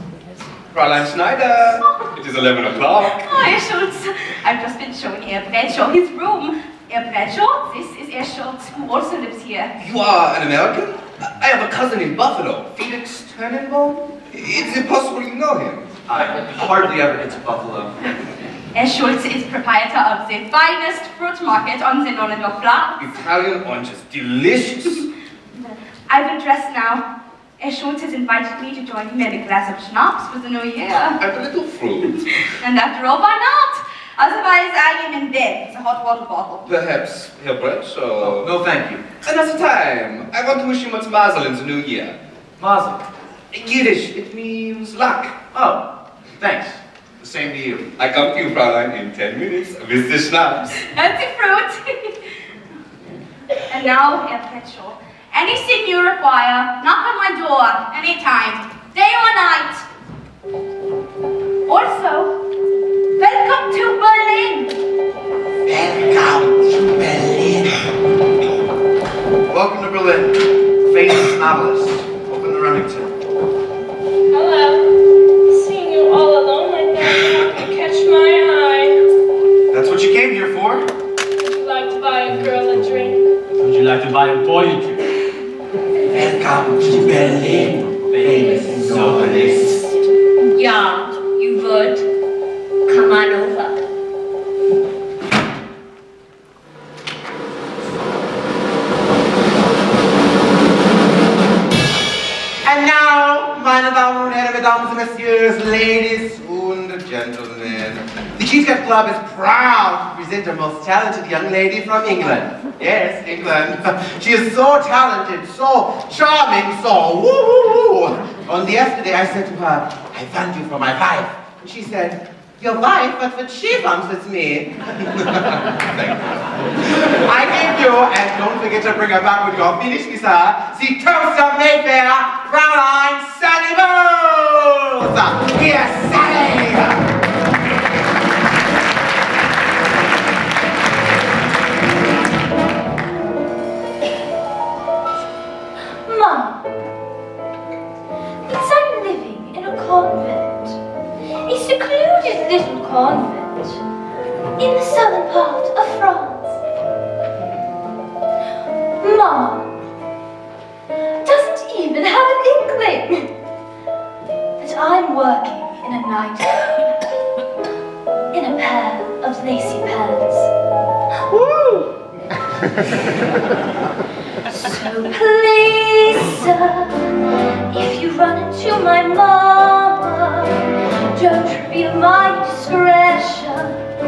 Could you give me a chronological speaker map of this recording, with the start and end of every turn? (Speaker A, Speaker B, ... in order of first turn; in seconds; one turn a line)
Speaker A: 0.7-3.6
Speaker B: 2.8-9.7
Speaker A: 9.8-15.9
Speaker C: 16.1-18.0
Speaker B: 18.7-23.0
Speaker A: 23.0-25.1
Speaker B: 26.1-27.0
Speaker B: 27.6-31.2
Speaker A: 31.2-32.3
Speaker B: 32.2-36.6
Speaker A: 36.6-38.5
Speaker C: 38.2-39.0
Speaker A: 39.2-42.1
Speaker C: 42.6-43.0
Speaker A: 43.5-45.3
Speaker C: 45.5-45.8
Speaker C: 46.4-47.9
Speaker A: 48.0-50.7
Speaker B: 50.7-52.2
Speaker B: 53.7-59.9
Speaker B: 61.6-62.3
Speaker B: 63.2-64.8
Speaker D: 65.6-67.7
Speaker C: 69.5-73.1
Speaker E: 74.3-74.9
Speaker E: 75.5-79.0
Speaker C: 79.7-80.8
Speaker E: 81.4-83.2
Speaker F: 83.6-85.0
Speaker D: 86.1-89.7
Speaker F: 88.0-89.8
Speaker G: 90.4-92.1
Speaker G: 92.9-93.8
Speaker D: 102.6-126.2
Speaker D: 126.9-137.0
Speaker G: 146.0-146.6
Speaker G: 148.4-150.8
Speaker G: 151.4-153.8
Speaker G: 154.6-156.6
Speaker G: 159.0-159.7
Speaker G: 161.2-163.3
Speaker G: 164.6-166.9
Speaker G: 168.3-170.5
Speaker G: 174.5-177.0
Speaker G: 177.7-183.8